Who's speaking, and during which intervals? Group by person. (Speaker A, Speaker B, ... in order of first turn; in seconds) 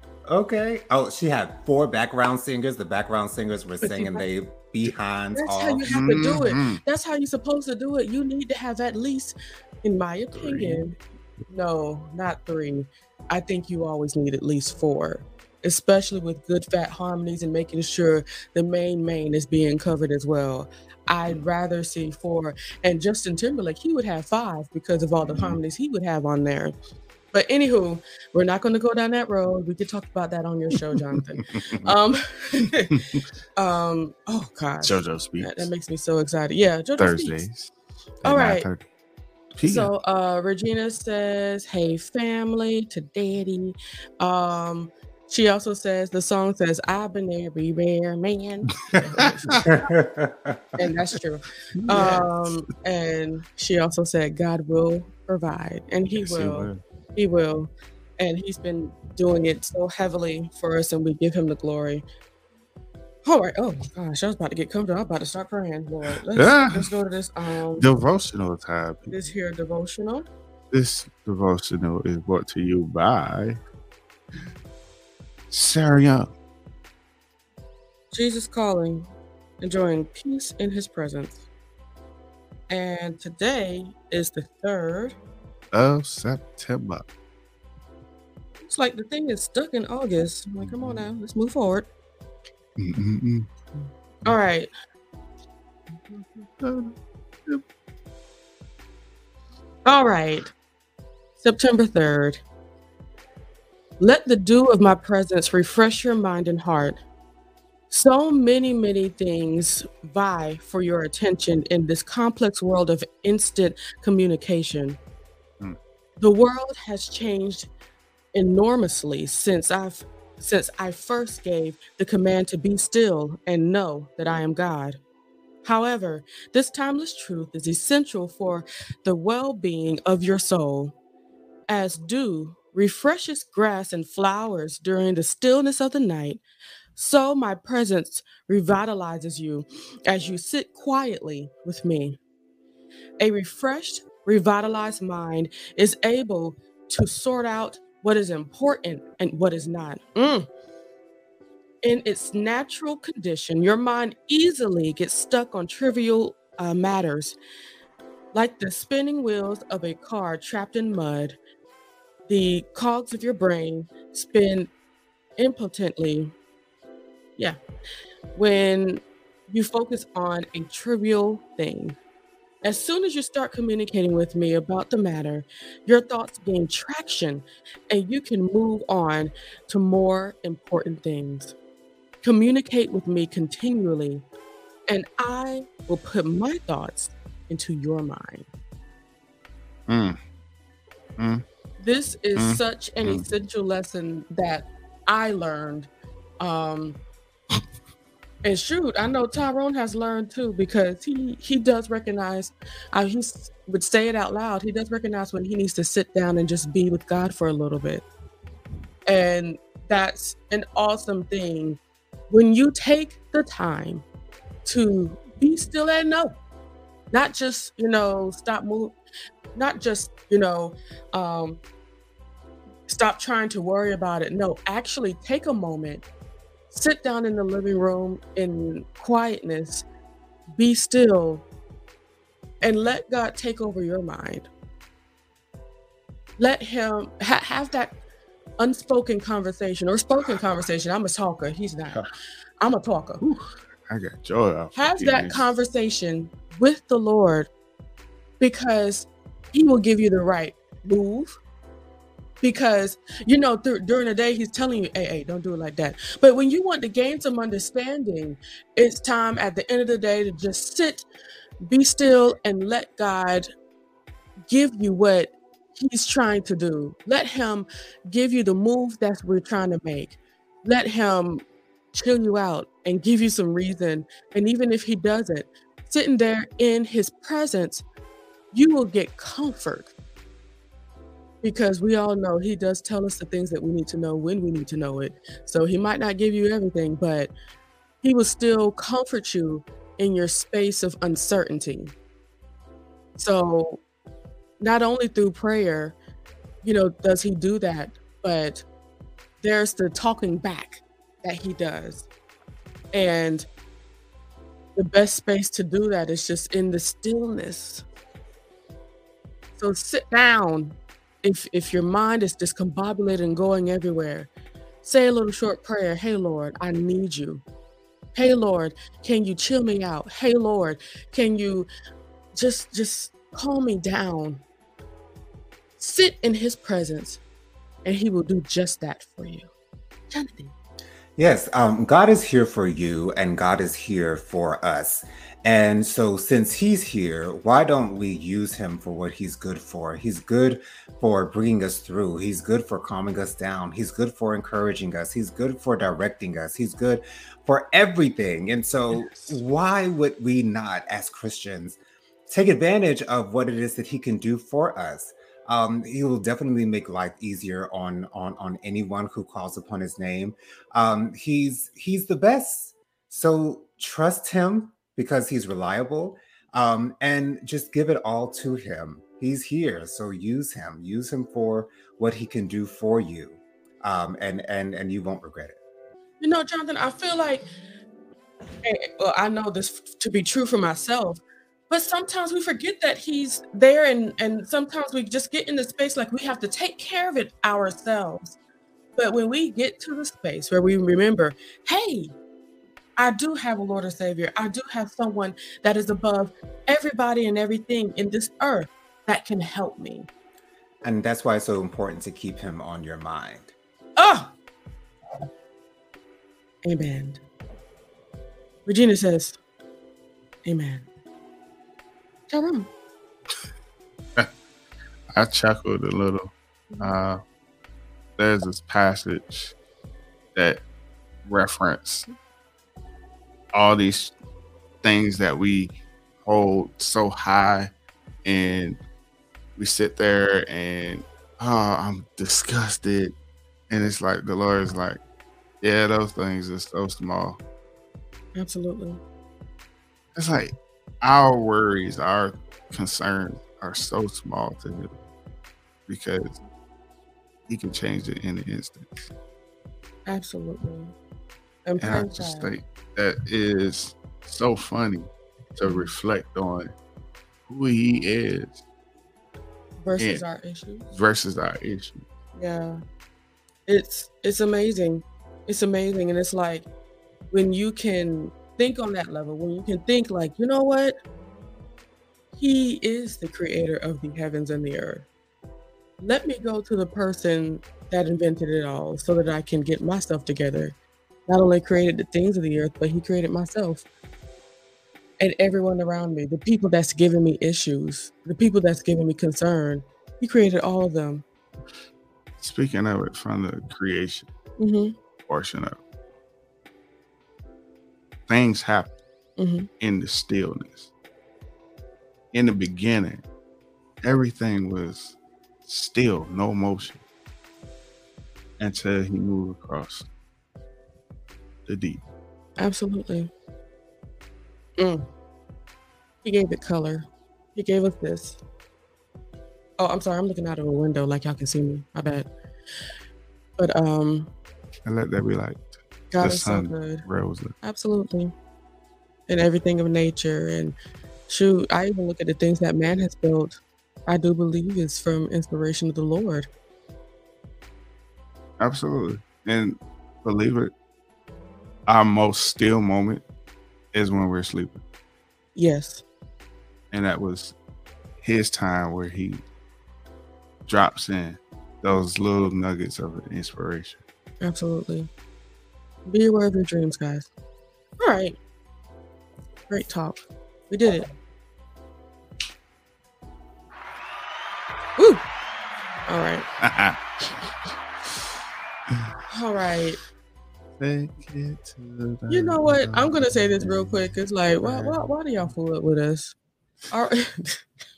Speaker A: 0.3-6.4, 49.7-50.8, 331.2-375.6, 400.8-403.5
Speaker B: 3.8-4.2, 5.3-26.7, 27.3-33.0, 33.6-37.5, 38.2-38.7, 39.6-49.9, 50.8-62.0, 63.3-67.9, 69.1-70.3, 78.1-79.1, 79.6-81.4, 82.7-85.2, 88.6-91.9, 94.2-94.7, 99.9-100.5, 101.4-102.4, 104.0-107.0, 107.9-115.0, 116.2-117.7, 118.3-125.0, 125.6-130.9, 131.7-136.4, 136.9-142.2, 143.2-150.5, 151.8-157.4, 158.3-161.4, 162.3-164.7, 165.4-166.3, 168.3-172.0, 172.6-181.6, 182.2-184.2, 184.9-188.5, 191.8-197.0, 198.4-208.1, 209.1-214.0, 214.7-216.3, 217.1-218.9, 219.6-221.6, 222.9-226.0, 226.7-229.9, 230.6-231.4, 232.6-234.5, 236.4-238.0, 238.6-242.0, 242.6-243.2, 244.8-247.5, 248.4-251.4, 252.4-261.1, 261.7-263.5, 264.5-277.9, 278.5-279.9, 281.4-287.3, 288.0-291.9, 293.2-293.8, 294.6-296.0, 296.6-298.7, 299.4-302.1, 302.9-303.5, 304.8-307.9, 309.6-314.3, 314.8-317.4, 318.1-321.7, 322.4-324.4, 325.8-327.2, 327.9-329.5, 330.1-330.6, 348.9-349.4, 376.2-377.5, 378.6-388.4, 389.0-392.1, 393.0-400.1, 404.0-404.3, 406.6-407.2, 408.7-409.4, 410.4-410.9, 412.3-412.7, 416.7-417.0, 438.4-439.0, 450.1-450.9, 451.7-452.6, 459.8-460.9, 462.4-462.8, 463.7-466.7, 467.3-471.0, 472.4-475.1, 476.0-480.8, 481.3-483.9, 485.2-491.2, 494.6-494.9, 499.4-499.7, 512.6-513.3, 514.8-515.1, 516.2-518.4, 519.8-522.3, 523.6-524.3, 526.1-527.0, 527.6-528.3, 529.3-530.8, 531.3-536.5, 545.6-546.0, 554.4-555.1, 556.1-557.3, 558.0-558.4, 559.7-561.1, 565.0-565.2, 566.1-566.5, 569.3-570.0, 572.3-576.4, 576.9-577.6
Speaker C: 5.9-6.8, 10.3-10.8, 31.6-31.9, 34.8-35.7, 37.0-37.7, 38.2-38.9, 39.5-39.9, 48.9-49.6, 51.8-52.5, 56.2-56.8, 66.3-66.9, 67.8-69.2, 70.7-73.6, 75.5-76.3, 85.7-87.0, 90.6-91.0, 92.8-93.5, 96.1-96.9, 189.9-190.2, 191.2-191.4, 192.4-193.2, 243.2-245.5, 415.1-417.2, 418.2-419.6, 420.4-420.6, 421.3-422.1, 423.5-424.1, 424.8-427.7, 428.2-428.8, 429.6-433.1, 433.7-435.0, 435.6-437.4, 440.1-444.9, 445.9-446.4, 447.5-449.1, 451.8-456.7, 457.5-458.6, 460.0-460.2, 460.9-462.0, 492.4-494.3, 495.3-495.8, 498.3-498.9, 499.8-500.9, 502.3-503.2, 504.0-505.1, 505.7-507.0, 508.6-510.1, 511.7-512.0, 524.9-527.6, 538.6-540.7, 541.9-543.2, 543.9-544.8, 546.9-547.5, 548.2-549.4, 550.7-554.0, 566.6-567.0, 570.8-574.1, 574.6-575.1